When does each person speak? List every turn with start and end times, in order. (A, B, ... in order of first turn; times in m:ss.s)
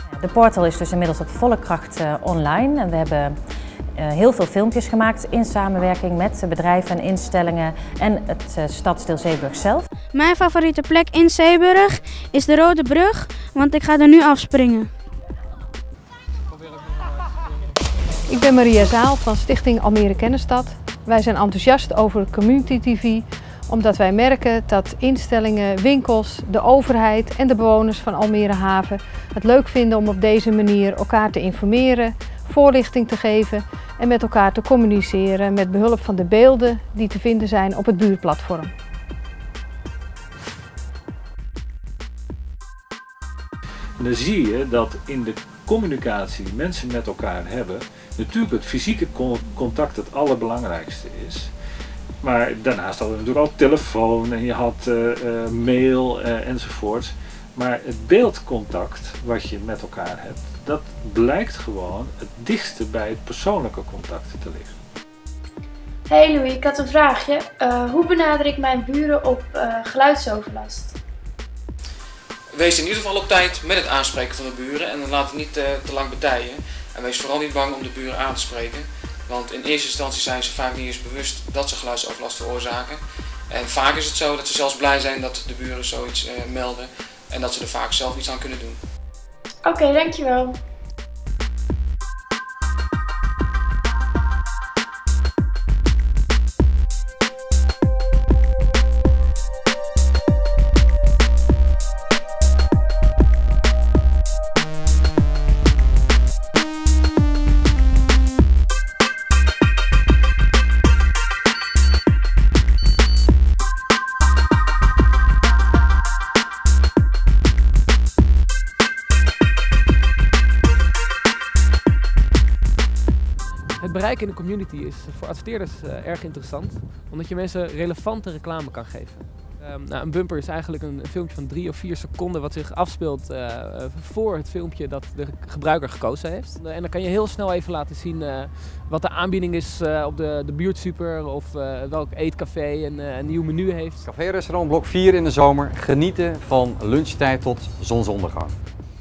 0:00.2-0:03.4 A
0:04.0-0:09.9 A
0:10.1-0:14.9 B
0:18.3-0:38.7 C
0:44.0-0:51.5 D
0:52.2-1:04.7 D
1:06.1-1:11.0 E
1:12.5-1:28.8 F
1:29.6-1:30.6 E
2:03.8-2:24.0 G
2:24.0-2:28.6 H